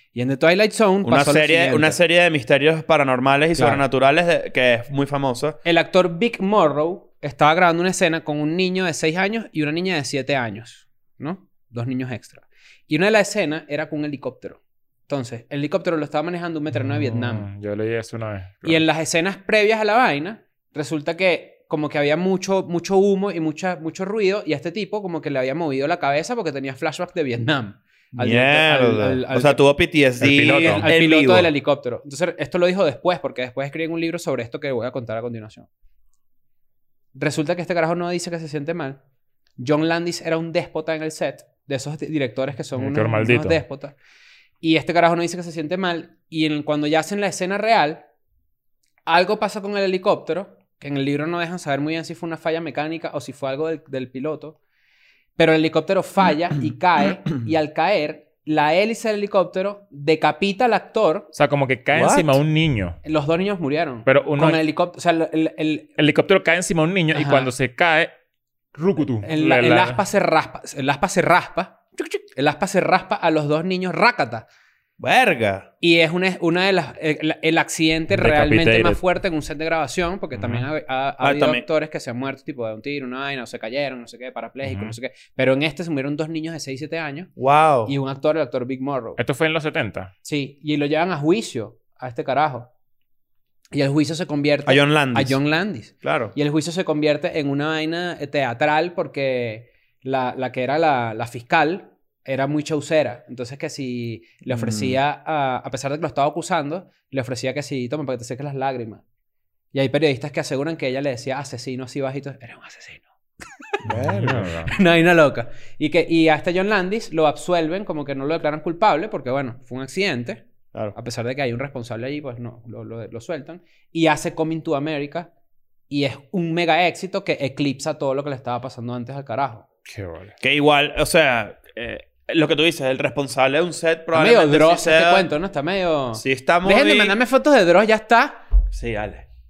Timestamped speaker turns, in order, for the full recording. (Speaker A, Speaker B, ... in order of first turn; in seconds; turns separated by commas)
Speaker A: 0.1-2.0, Speaker B: 1.0-5.6, Speaker A: 3.5-3.8, Speaker A: 5.6-17.5, Speaker C: 16.7-18.8, Speaker A: 18.6-29.6, Speaker B: 28.2-31.5, Speaker C: 30.2-30.9, Speaker A: 30.2-35.7, Speaker A: 37.1-39.0, Speaker A: 39.6-44.0, Speaker C: 42.8-43.6, Speaker A: 44.6-48.0, Speaker A: 49.1-54.6, Speaker A: 55.4-61.3, Speaker C: 61.3-63.0, Speaker B: 61.9-62.4, Speaker A: 63.0-65.9, Speaker C: 64.1-64.6, Speaker C: 66.0-68.1, Speaker A: 67.1-67.5, Speaker C: 68.8-70.0, Speaker A: 69.2-74.5, Speaker B: 75.0-75.7, Speaker A: 75.8-87.3, Speaker C: 78.1-79.0, Speaker C: 80.3-80.7, Speaker B: 81.2-81.7, Speaker C: 84.6-85.0, Speaker B: 87.4-87.9, Speaker A: 87.9-89.2, Speaker C: 89.2-90.1, Speaker A: 90.2-92.7, Speaker A: 93.7-109.0, Speaker B: 94.7-95.4, Speaker B: 96.0-96.3, Speaker B: 104.5-105.0, Speaker A: 109.7-113.1, Speaker B: 113.8-114.6, Speaker C: 113.9-114.7, Speaker A: 114.6-125.3, Speaker A: 125.9-129.7, Speaker C: 129.9-130.3, Speaker B: 130.4-135.3, Speaker A: 134.1-138.4, Speaker B: 136.2-137.2, Speaker B: 138.7-139.3